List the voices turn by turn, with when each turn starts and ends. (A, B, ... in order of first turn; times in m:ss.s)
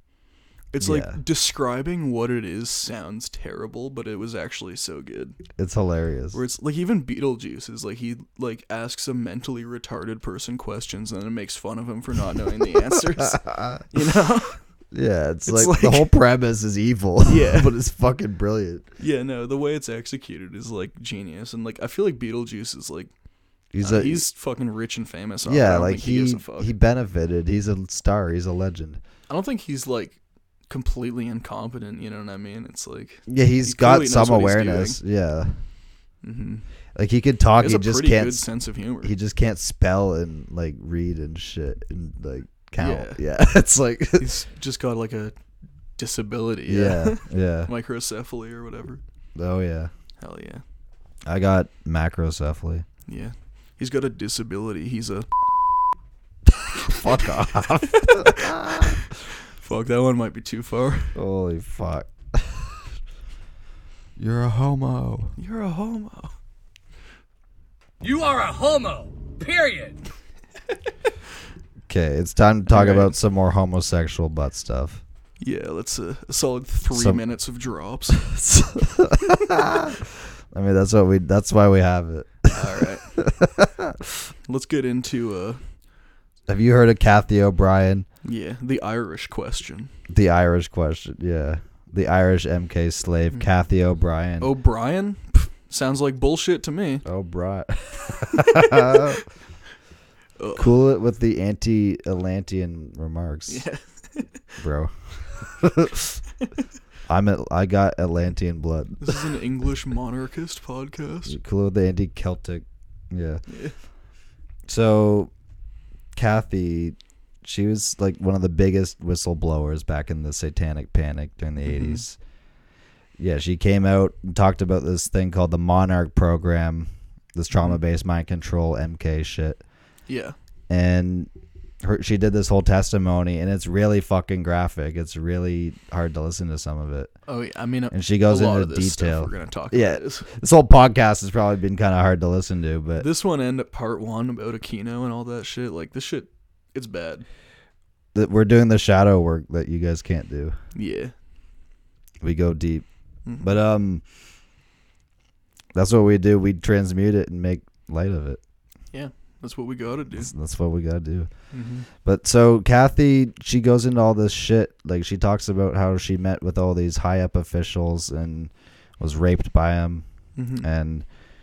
0:00.7-0:05.4 A
0:00.8-0:01.2 B
0:05.6-0:06.4 B
0:06.3-0:14.6 A
0:13.2-0:13.8 B
0:14.9-0:18.9 B
0:15.5-0:16.2 A
0:17.2-0:17.7 A
0:19.0-0:23.1 A
0:23.7-0:24.2 B
0:23.8-0:26.7 A
0:25.4-0:29.0 B
0:29.3-0:35.0 A
0:33.3-0:35.6 B
0:36.2-0:36.7 A
0:37.0-0:38.5 B
0:37.6-0:39.1 A
0:39.0-0:44.3 B
0:42.8-0:43.2 A
0:44.2-0:45.4 A
0:46.0-0:49.0 A
0:46.7-0:47.7 B
0:49.4-0:49.9 B
0:50.2-0:50.6 A
0:51.2-0:52.9 B
0:53.1-0:55.3 A
0:56.5-0:59.0 B
0:57.9-1:01.2 A
1:01.2-1:02.8 B
1:04.2-1:05.3 B
1:05.4-1:06.3 A
1:08.0-1:10.0 C
1:11.9-1:15.0 B
1:12.7-1:13.1 A
1:15.4-1:18.3 A
1:16.9-1:17.2 B
1:18.3-1:23.9 B
1:22.5-1:23.1 A
1:24.5-1:25.6 A
1:26.5-1:28.1 B
1:28.2-1:29.9 A
1:30.1-1:34.5 B
1:34.4-1:37.1 A
1:37.0-1:39.2 B
1:40.4-1:40.7 A
1:40.6-1:43.6 B
1:43.5-1:44.4 A
1:44.6-1:46.1 B
1:47.1-1:49.3 B
1:49.0-1:51.4 A
1:51.3-1:53.4 B
1:53.5-1:53.8 A
1:54.7-1:55.3 B
1:56.2-2:02.2 B
2:01.7-2:02.0 A
2:03.2-2:09.6 B
2:07.5-2:07.8 A
2:10.1-2:10.4 A
2:10.7-2:11.3 B
2:11.8-2:17.1 B
2:17.3-2:20.3 A
2:17.9-2:23.1 B
2:23.0-2:27.2 A
2:28.1-2:30.6 B
2:30.7-2:31.1 A
2:32.2-2:34.0 B
2:33.2-2:33.5 A
2:35.8-2:38.4 B
2:38.9-2:40.3 A
2:40.2-2:41.3 B
2:41.5-2:41.9 A
2:42.0-2:50.0 B
2:50.4-2:50.7 A
2:50.6-2:51.1 B